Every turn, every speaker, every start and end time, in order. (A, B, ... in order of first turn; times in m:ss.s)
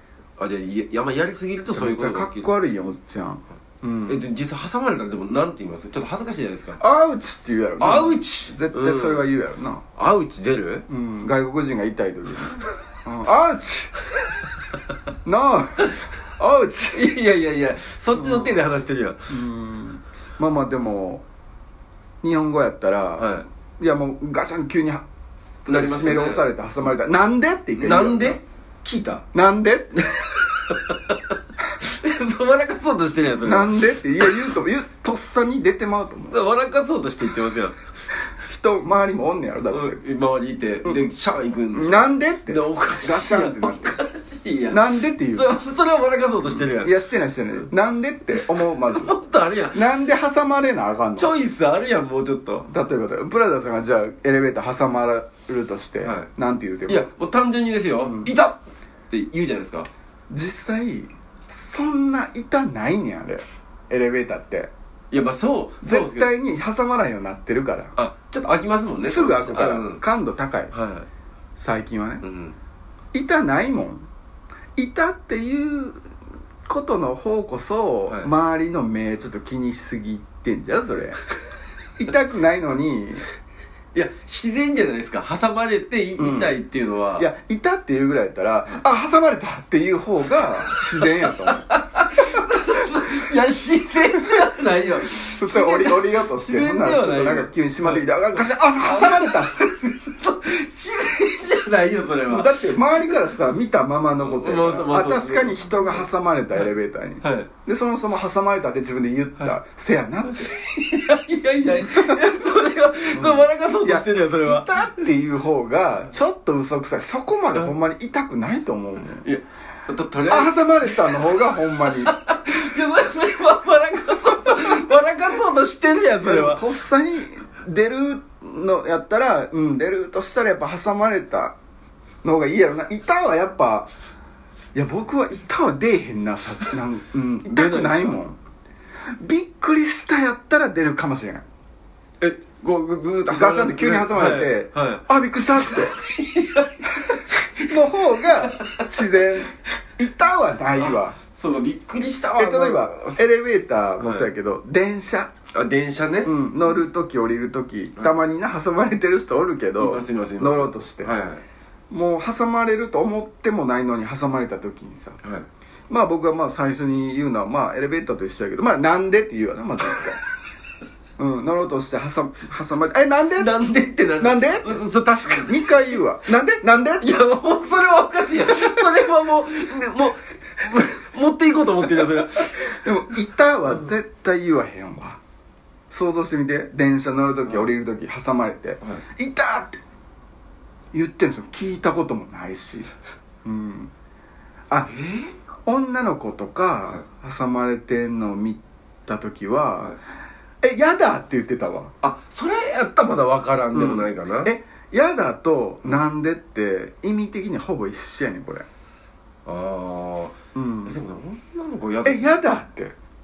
0:00.4-0:02.5 A
0:01.7-0:04.2 B
0:04.1-0:06.8 A
0:06.8-0:09.8 B
0:07.8-0:09.3 A
0:10.0-0:10.9 A
0:10.9-0:14.0 B
0:15.2-0:17.1 B
0:16.9-0:19.3 A
0:18.2-0:18.6 B
0:19.3-0:21.2 B
0:22.2-0:25.1 B
0:23.2-0:23.5 A
0:25.6-0:28.4 B
0:25.7-0:26.5 A
0:27.8-0:29.2 A
0:29.3-0:30.1 B
0:30.1-0:31.2 A
0:31.8-0:34.4 A
0:33.4-0:36.4 B
0:36.3-0:37.8 A
0:38.3-0:40.0 B
0:39.7-0:46.9 A
0:41.7-0:44.0 B
0:44.7-0:45.6 B
0:46.4-0:49.2 B
0:48.4-0:49.9 A
0:49.7-0:51.3 B
0:51.2-0:52.7 A
0:52.7-0:57.1 B
0:56.0-0:56.3 A
0:56.9-0:58.6 A
0:58.0-0:58.3 B
0:59.1-0:59.9 A
1:00.3-1:04.7 B
1:05.1-1:06.3 A
1:05.8-1:08.0 B
1:08.0-1:10.0 A
1:09.0-1:10.7 B
1:10.7-1:11.1 A
1:11.6-1:12.2 B
1:12.2-1:12.6 A
1:13.1-1:14.0 B
1:14.8-1:16.0 B
1:16.7-1:21.2 B
1:22.0-1:23.2 B
1:23.9-1:27.3 A
1:26.2-1:26.6 B
1:27.2-1:31.7 B
1:30.7-1:42.6 A
1:35.3-1:39.6 B
1:42.3-1:50.6 B
1:44.2-1:46.7 A
1:47.2-1:47.5 A
1:50.3-1:54.8 A
1:51.6-1:52.3 B
1:53.1-1:59.3 B
1:59.1-2:06.6 A
2:00.3-2:02.1 B
2:06.2-2:11.6 B
2:12.2-2:13.9 B
2:14.7-2:18.4 B
2:17.4-2:18.2 A
2:19.2-2:21.4 B
2:22.2-2:25.0 A
2:23.3-2:26.0 B
2:25.7-2:27.6 A
2:27.7-2:31.2 B
2:28.5-2:28.8 A
2:30.8-2:33.2 A
2:32.4-2:35.3 B
2:34.0-2:34.3 A
2:35.5-2:36.3 A
2:36.2-2:41.2 B
2:39.8-2:41.4 A
2:41.9-2:45.2 B
2:45.9-2:50.2 B
2:51.2-2:53.5 B
2:53.4-2:55.8 A
2:54.2-2:57.1 B
2:57.0-3:02.8 A
3:02.6-3:05.2 B
3:05.9-3:09.8 B
3:10.9-3:12.9 B
3:13.4-3:13.9 B
3:14.9-3:15.3 A
3:15.7-3:20.0 B
3:20.6-3:21.9 B
3:22.0-3:24.5 A
3:23.7-3:28.6 B
3:29.5-3:32.4 A
3:30.6-3:31.0 B
3:32.0-3:33.0 B